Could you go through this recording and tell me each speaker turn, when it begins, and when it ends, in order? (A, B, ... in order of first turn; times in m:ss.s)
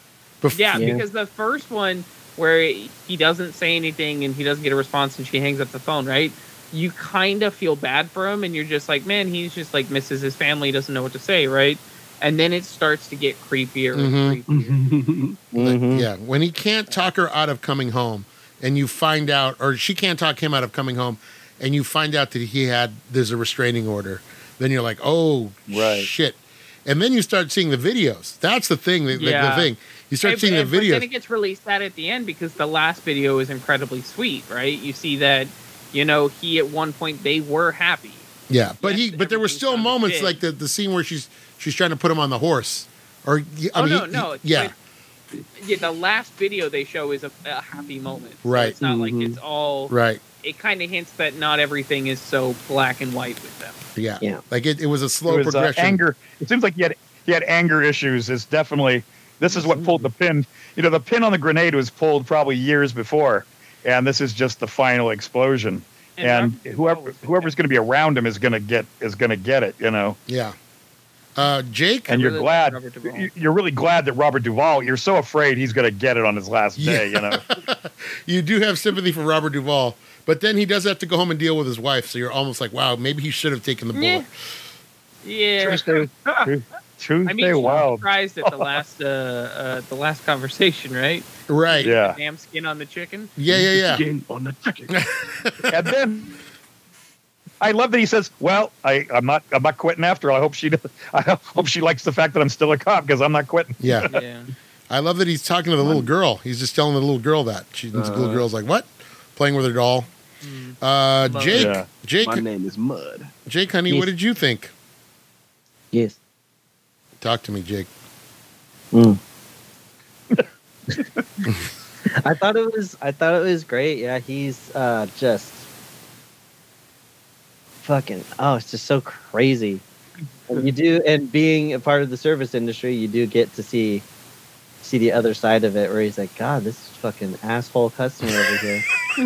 0:00.4-0:01.0 A
0:00.5-0:14.8 B
0:00.7-0:01.0 C
0:13.9-0:14.4 A
0:14.5-0:15.4 D
0:15.5-0:16.1 C
0:15.6-0:31.1 A
0:25.7-0:26.1 E
0:29.1-0:29.7 B
0:30.2-0:38.3 B
0:38.5-0:44.7 A
0:38.8-0:40.4 B
0:43.7-0:44.7 B
0:45.4-0:53.8 B
0:48.4-0:48.7 A
0:48.8-0:49.4 D
0:49.9-0:50.2 A
0:54.0-0:56.0 A
0:55.3-1:10.2 E
0:59.5-1:00.0 C
1:06.2-1:07.6 B
1:10.3-1:10.5 A
1:11.4-1:12.1 A
1:12.1-1:13.3 B
1:12.1-1:17.4 E
1:16.8-1:24.3 A
1:23.9-1:24.2 B
1:25.2-1:25.9 B
1:25.6-1:28.7 E
1:26.2-1:26.5 D
1:27.2-1:33.3 B
1:31.5-1:31.9 A
1:31.8-1:32.2 E
1:33.4-1:34.0 A
1:33.5-1:35.0 D
1:34.9-1:35.7 A
1:35.7-1:36.3 E
1:37.6-1:44.1 E
1:43.8-1:44.1 A
1:44.1-1:44.5 B
1:44.9-1:50.1 A
1:45.8-1:46.1 D
1:47.9-1:48.4 D
1:50.4-1:51.8 B
1:50.8-1:52.4 A
1:51.5-1:51.9 E
1:52.2-1:53.3 D
1:53.5-1:54.7 A
1:55.9-1:56.2 C
1:57.2-1:57.9 A
1:58.9-1:59.2 C
2:02.1-2:05.6 C
2:07.8-2:09.8 C
2:10.5-2:14.0 C
2:14.8-2:18.8 C